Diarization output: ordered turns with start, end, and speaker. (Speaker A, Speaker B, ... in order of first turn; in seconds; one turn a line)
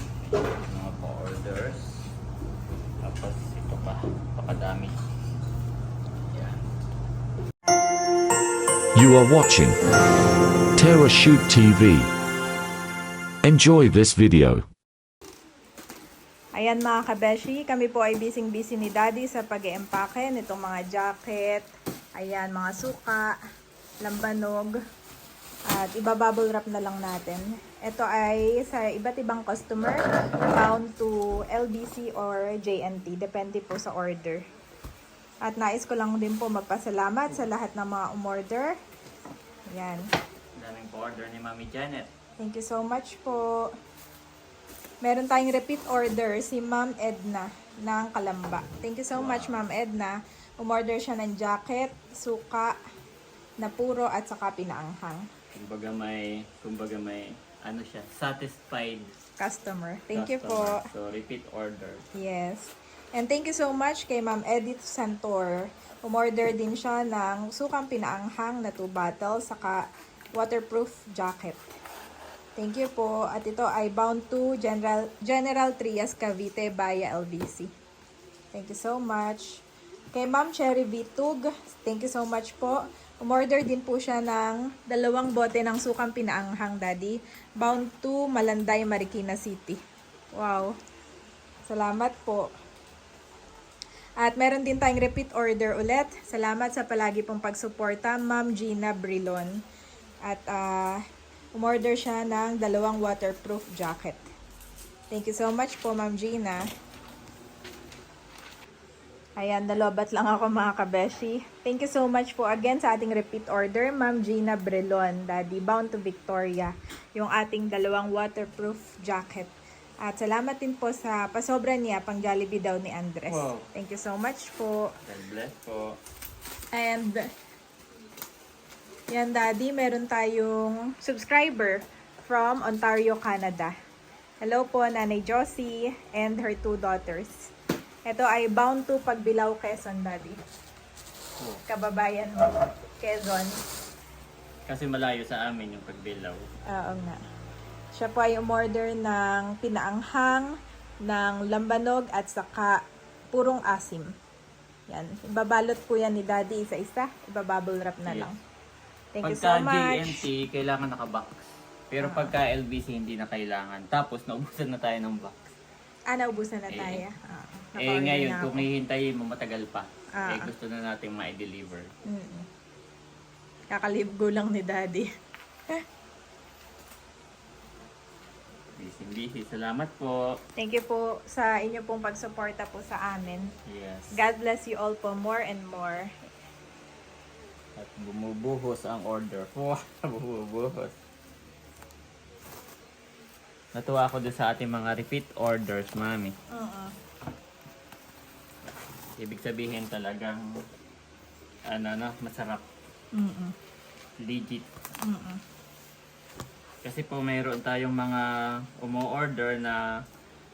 Speaker A: 0.6-2.1
Speaker A: 3.0-5.0
Speaker B: 9.0-9.8
Speaker B: 10.8-12.1
Speaker B: 13.4-14.6
Speaker C: 16.6-23.4
Speaker C: 24.1-24.8
Speaker C: 25.7-34.4
Speaker C: 35.4-38.8
Speaker C: 39.7-40.1
Speaker A: 40.6-42.1
Speaker C: 42.4-43.7
Speaker C: 45.0-52.8
Speaker A: 49.1-49.6
Speaker C: 53.6-55.3
Speaker A: 55.5-59.1
Speaker C: 59.4-60.8
Speaker A: 60.1-62.0
Speaker C: 62.1-69.8
Speaker C: 70.3-71.7
Speaker C: 72.6-77.7
Speaker C: 78.5-89.8
Speaker C: 90.3-90.8
Speaker C: 91.7-92.5
Speaker C: 94.2-99.6
Speaker C: 100.3-101.0
Speaker C: 101.6-104.2
Speaker C: 105.1-106.7
Speaker C: 109.4-124.9
Speaker A: 123.3-123.7
Speaker A: 125.0-126.0
Speaker C: 126.7-127.3
Speaker C: 129.1-133.8
Speaker C: 134.4-137.5
Speaker C: 138.1-140.4
Speaker C: 141.7-143.6
Speaker A: 144.7-146.5
Speaker C: 146.7-147.2
Speaker C: 147.9-150.5
Speaker C: 151.1-152.8
Speaker C: 153.3-154.1
Speaker C: 154.9-158.4
Speaker A: 158.1-158.3
Speaker C: 159.2-160.2
Speaker A: 159.2-165.5
Speaker C: 162.0-162.3
Speaker C: 166.1-168.7
Speaker A: 166.7-167.0
Speaker A: 167.8-171.9
Speaker C: 170.2-170.5
Speaker C: 172.1-172.5
Speaker C: 173.7-175.1
Speaker A: 178.8-180.2
Speaker C: 180.6-183.5
Speaker A: 183.7-184.2
Speaker C: 184.1-186.1
Speaker A: 187.8-190.9
Speaker A: 193.8-196.3
Speaker C: 196.5-196.9
Speaker A: 199.2-200.5
Speaker A: 201.7-202.7
Speaker C: 203.2-203.5
Speaker A: 204.2-204.7
Speaker C: 205.0-205.4
Speaker A: 206.8-208.3
Speaker A: 208.8-209.8